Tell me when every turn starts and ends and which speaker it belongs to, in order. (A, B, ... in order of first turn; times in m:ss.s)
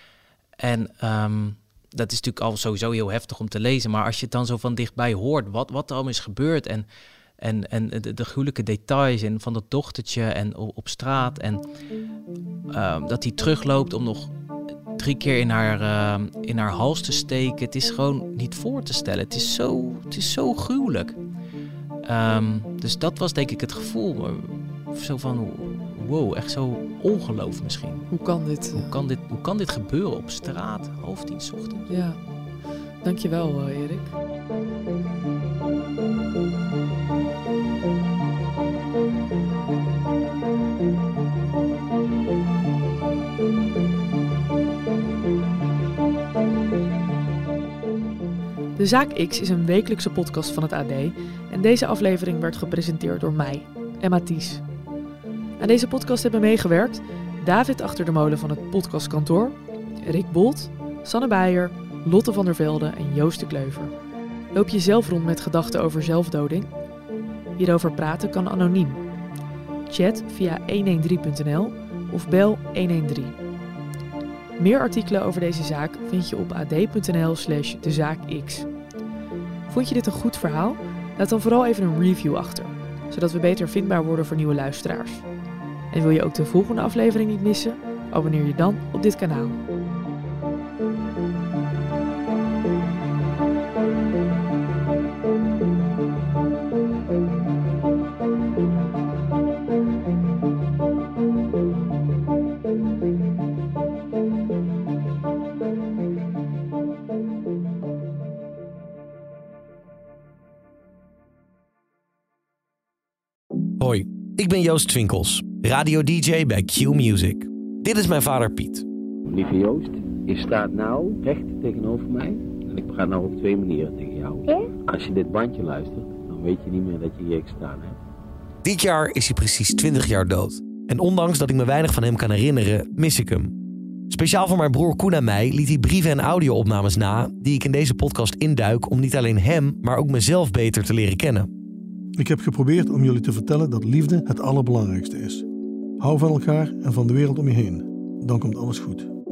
0:00.6-0:06.9 A
0:07.4-0:11.6 A
0:12.7-0:14.3 A
0:15.0-0:21.2 A
0:22.0-0:28.1 A
0:28.1-0:28.9 B
0:28.7-0:31.9 A
0:31.9-0:32.2 B
0:33.0-0:34.1 B
0:48.8-0:54.6 B
0:55.6-1:03.9 B
1:04.5-1:06.7 B
1:07.6-1:09.0 B
1:09.9-1:13.4 B
1:14.6-1:18.7 B
1:19.7-1:25.3 B
1:25.9-1:29.6 B
1:53.8-1:58.8 C
1:59.2-2:08.0 D
2:08.6-2:13.5 C
2:14.1-2:21.5 C
2:22.2-2:25.4 E
2:26.0-2:29.1 E